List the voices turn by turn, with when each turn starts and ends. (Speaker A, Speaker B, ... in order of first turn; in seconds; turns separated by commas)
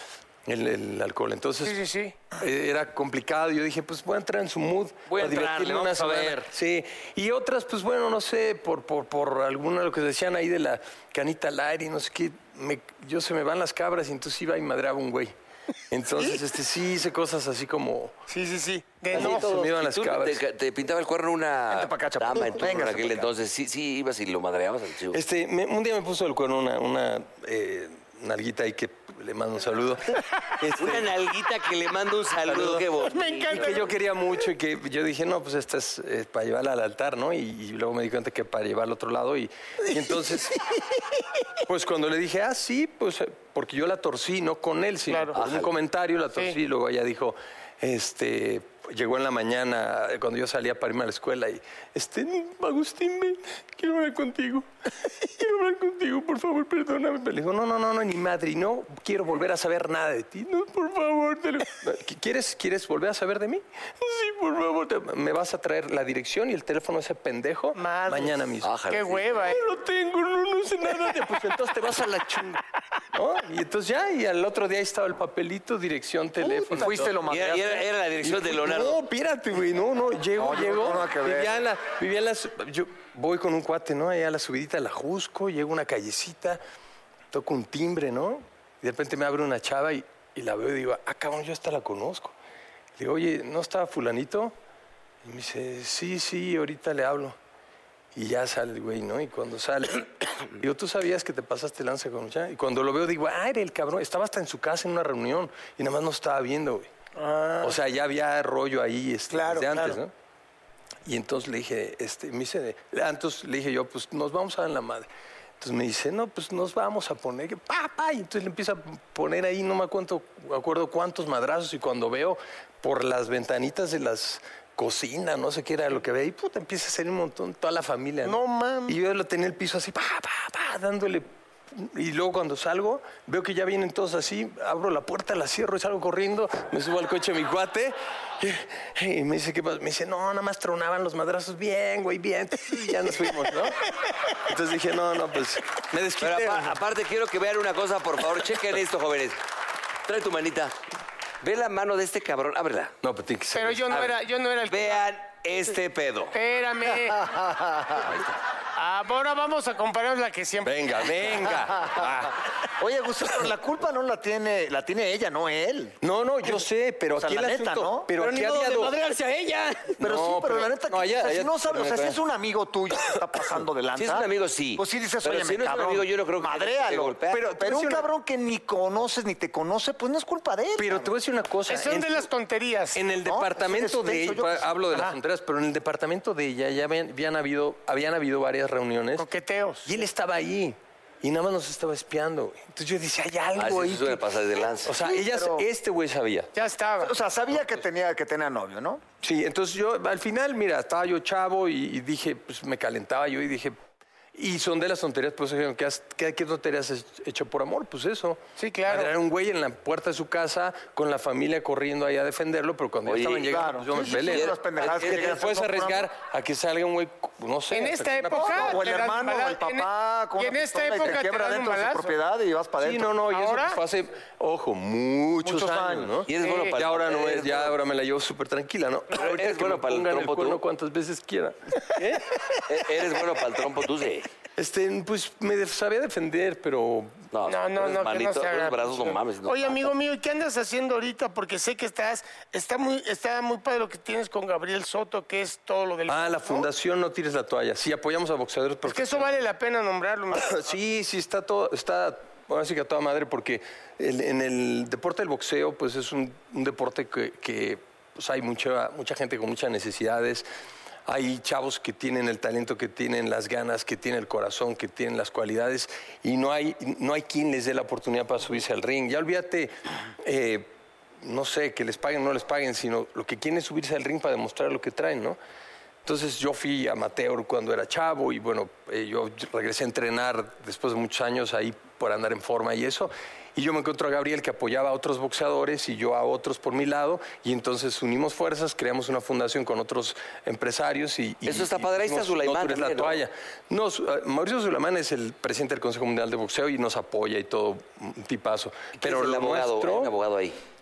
Speaker A: 0.5-1.8, Speaker B: 1.6-2.2, Speaker A: 2.3-15.3, Speaker C: 5.1-6.4, Speaker A: 15.9-18.1, Speaker B: 18.3-19.5, Speaker A: 19.1-20.4, Speaker D: 19.1-19.7, Speaker C: 19.1-25.2, Speaker E: 21.7-23.3, Speaker A: 25.1-31.1, Speaker C: 30.8-33.9, Speaker A: 32.5-32.9, Speaker B: 33.0-34.0, Speaker A: 33.5-40.6, Speaker A: 41.6-68.7, Speaker B: 45.1-45.4, Speaker C: 45.3-45.7, Speaker B: 67.7-69.6, Speaker C: 68.6-69.4, Speaker A: 69.5-72.6, Speaker A: 73.1-77.2, Speaker E: 76.4-77.8, Speaker C: 77.2-79.0, Speaker A: 78.2-86.6, Speaker E: 80.3-81.6, Speaker A: 87.3-92.3, Speaker A: 93.0-94.5, Speaker A: 95.2-97.3, Speaker A: 98.1-106.9, Speaker B: 107.2-107.8, Speaker A: 107.6-110.1, Speaker B: 109.3-110.0, Speaker A: 111.0-115.1, Speaker A: 115.6-146.7, Speaker B: 128.2-129.0, Speaker C: 146.2-149.4, Speaker C: 150.1-150.7, Speaker C: 151.4-152.9, Speaker A: 153.0-154.0, Speaker B: 153.5-155.0, Speaker C: 154.7-156.3, Speaker B: 156.3-157.3, Speaker E: 157.1-158.1, Speaker B: 158.7-161.5, Speaker A: 160.6-162.4, Speaker E: 161.9-162.2, Speaker E: 162.8-166.0, Speaker A: 166.0-168.9, Speaker E: 167.1-168.1, Speaker D: 168.1-170.0, Speaker A: 170.0-172.2, Speaker E: 170.0-181.1, Speaker C: 173.9-177.4, Speaker A: 177.3-178.1, Speaker A: 180.8-182.3, Speaker B: 181.7-183.0, Speaker A: 182.9-189.3, Speaker E: 183.2-184.8, Speaker B: 184.9-185.2, Speaker B: 189.2-189.9, Speaker A: 189.8-194.3, Speaker C: 193.6-195.0, Speaker A: 194.8-196.5, Speaker E: 195.0-195.7, Speaker B: 196.5-197.1, Speaker E: 197.0-199.0, Speaker A: 199.2-203.8, Speaker A: 204.3-218.8, Speaker B: 208.6-209.1, Speaker C: 213.0-215.4, Speaker E: 213.4-216.1, Speaker B: 217.7-222.1, Speaker E: 218.3-223.2, Speaker A: 222.8-232.9, Speaker B: 223.3-223.8, Speaker E: 225.4-226.2, Speaker C: 226.3-227.8, Speaker B: 226.4-226.8, Speaker C: 229.1-230.6, Speaker C: 232.7-234.3, Speaker A: 234.6-237.2, Speaker C: 237.3-239.9, Speaker B: 237.4-246.7, Speaker A: 246.1-249.4, Speaker B: 248.8-250.7, Speaker A: 250.3-260.5, Speaker A: 261.1-270.7, Speaker A: 271.2-275.4, Speaker A: 276.0-300.1, Speaker C: 291.4-293.2, Speaker C: 298.9-300.6